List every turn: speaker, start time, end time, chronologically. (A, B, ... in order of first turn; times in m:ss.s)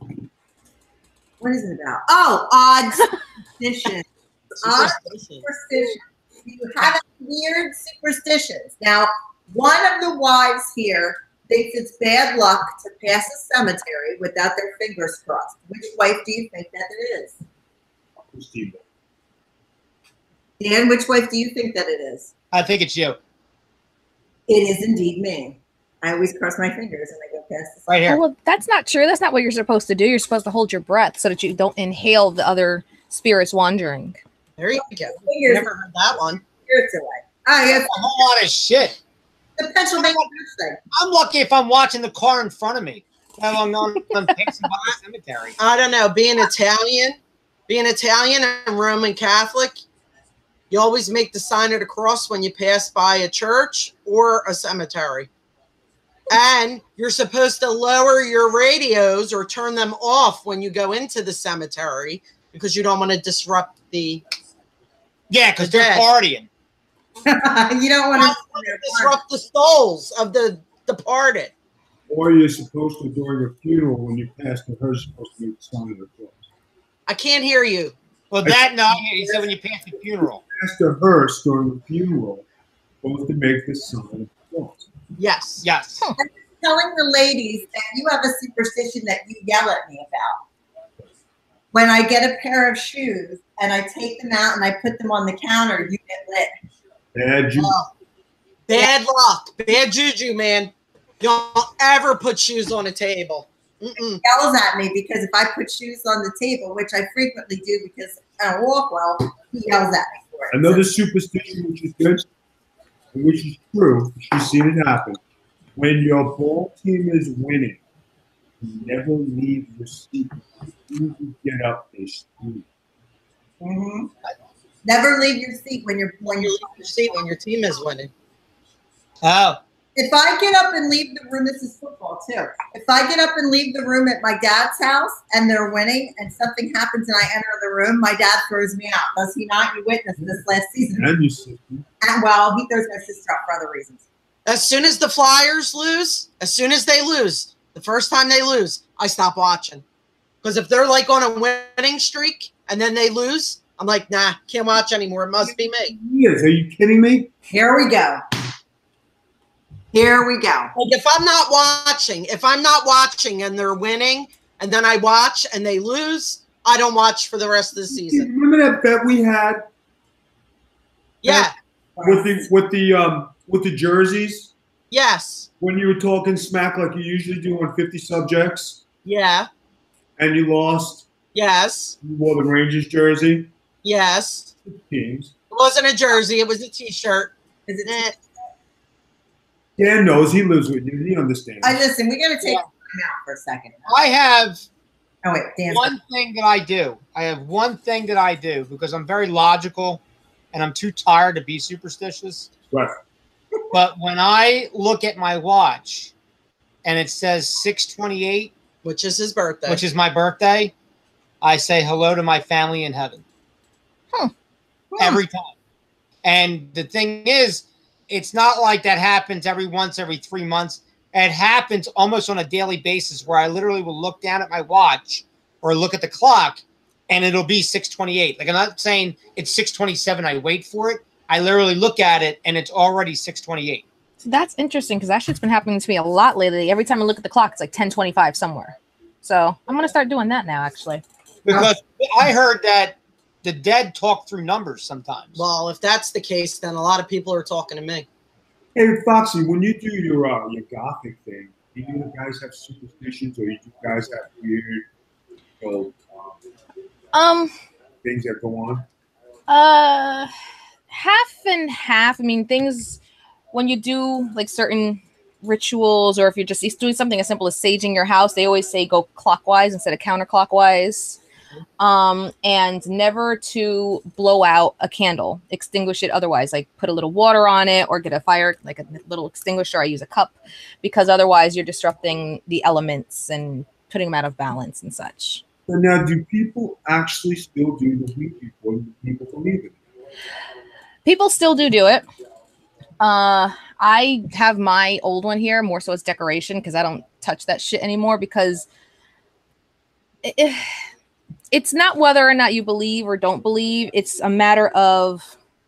0:01.4-0:04.1 A
0:04.6-0:05.4 B
0:04.6-0:17.4 A
0:18.2-0:18.8 C
0:20.6-0:22.3 A
0:22.5-0:23.2 D
0:24.5-0:27.8 A
0:27.9-0:28.2 D
0:28.1-0:34.2 E
0:34.6-0:36.4 B
0:34.8-0:35.7 A
0:36.6-0:38.2 A
0:37.7-0:39.0 D
0:39.6-0:40.8 A
0:40.9-0:45.6 D
0:45.6-0:47.2 B
0:47.7-0:49.8 B
0:50.7-0:55.3 B
0:56.3-1:04.2 B
1:05.3-1:06.5 D
1:05.6-1:06.0 B
1:07.3-1:09.2 A
1:08.2-1:11.5 B
1:12.1-1:16.4 C
1:17.1-1:18.0 B
1:18.3-1:20.4 D
1:18.4-1:19.5 C
1:20.5-1:22.4 C
1:23.0-1:24.8 C
1:25.2-1:25.6 B
1:25.6-1:26.1 D
1:26.2-1:30.4 A
1:31.7-1:36.5 A
1:37.1-1:37.8 C
1:37.6-1:37.9 B
1:38.7-1:44.2 B
1:44.2-1:50.9 A
1:50.5-1:52.3 C
1:53.1-1:55.2 C
1:55.8-1:57.8 C
1:58.6-2:02.6 C
2:03.6-2:04.1 A
2:04.8-2:06.9 A
2:06.3-2:08.1 B
2:09.2-2:09.6 D
2:10.0-2:21.1 A
2:20.2-2:21.8 C
2:22.0-2:24.0 A
2:24.5-2:29.8 B
2:30.4-2:35.9 B
2:35.4-2:37.3 C
2:37.5-2:38.2 A
2:39.9-2:40.7 A
2:40.8-2:48.3 B
2:47.9-2:49.6 C
2:51.2-2:51.6 B
2:51.2-2:51.5 C
2:52.0-2:52.5 A
2:52.0-2:54.5 C
2:54.9-2:55.5 B
2:55.6-2:58.8 C
2:59.0-2:59.5 B
3:00.2-3:01.1 C
3:01.4-3:02.0 B
3:02.0-3:03.5 C
3:03.8-3:04.5 B
3:04.7-3:05.3 C
3:05.5-3:07.3 B
3:07.7-3:08.2 A
3:07.9-3:08.2 B
3:09.8-3:11.8 C
3:11.6-3:13.9 A
3:13.9-3:14.6 D
3:15.2-3:15.9 A
3:15.7-3:20.0 D
3:20.5-3:22.5 D
3:23.7-3:26.1 D
3:26.8-3:28.5 D
3:28.8-3:29.8 B
3:29.7-3:30.7 D
3:31.4-3:33.2 D
3:34.9-3:35.2 A
3:35.0-3:35.5 D
3:36.2-3:53.8 D
3:54.2-4:01.0 E
4:01.5-4:05.4 D
4:05.4-4:08.1 B
4:08.8-4:14.9 C
4:15.6-4:16.4 C
4:17.1-4:17.5 E
4:18.0-4:18.8 C
4:19.5-4:20.3 E
4:20.9-4:23.0 E
4:23.5-4:31.2 E
4:31.8-4:45.4 E
4:45.7-4:49.8 C
4:51.0-4:52.0 E
4:53.0-4:58.7 E
5:00.2-5:00.6 E
5:01.5-5:05.3 E